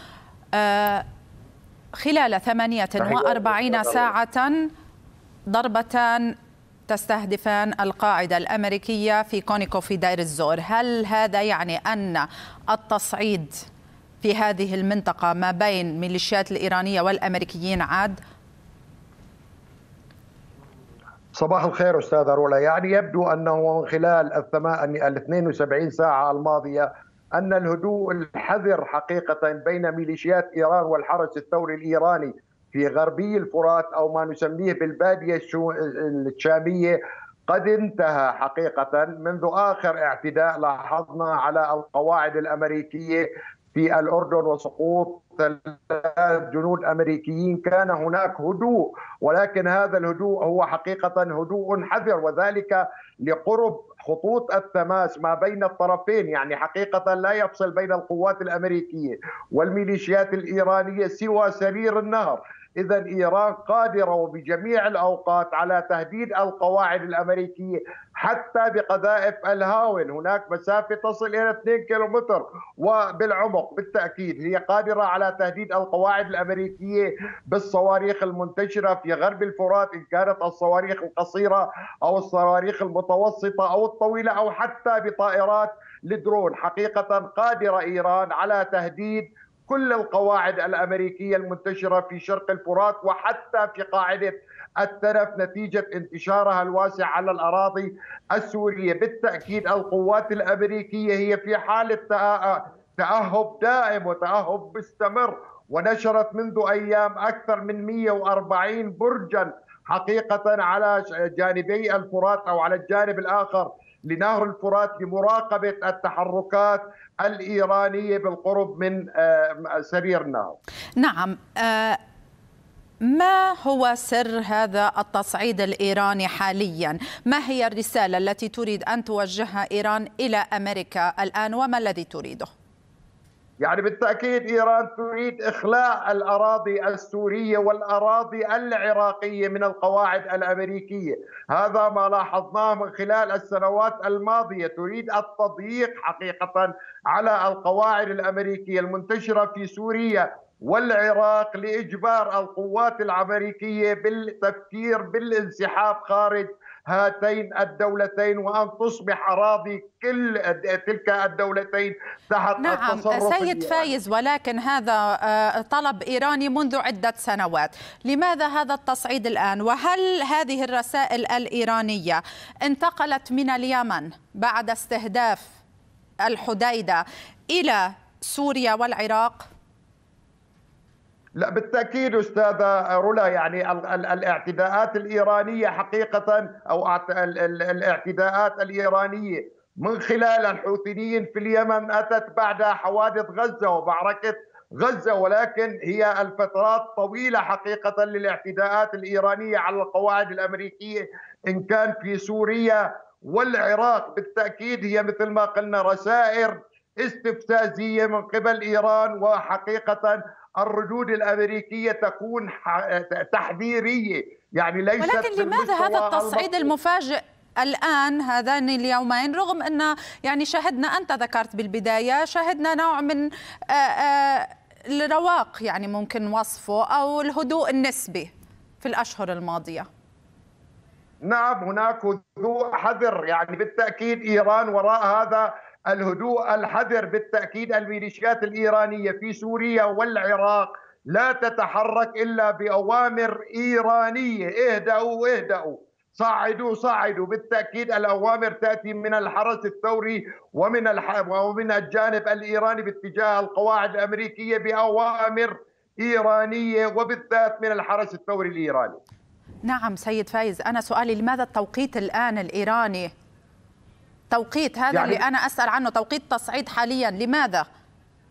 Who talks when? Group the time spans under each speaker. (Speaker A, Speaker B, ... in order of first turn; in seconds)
Speaker A: 0.5-1.1, 1.9-4.7, 5.5-6.3, 6.9-13.5, 14.2-18.2, 121.0-122.0, 123.0-132.5, 162.6-175.5, 176.2-179.5, 215.0-229.9, 259.6-263.1, 264.3-267.6
Speaker B: 3.0-4.1, 21.3-120.6, 133.6-163.9, 181.4-216.7, 231.2-259.0, 264.9-265.2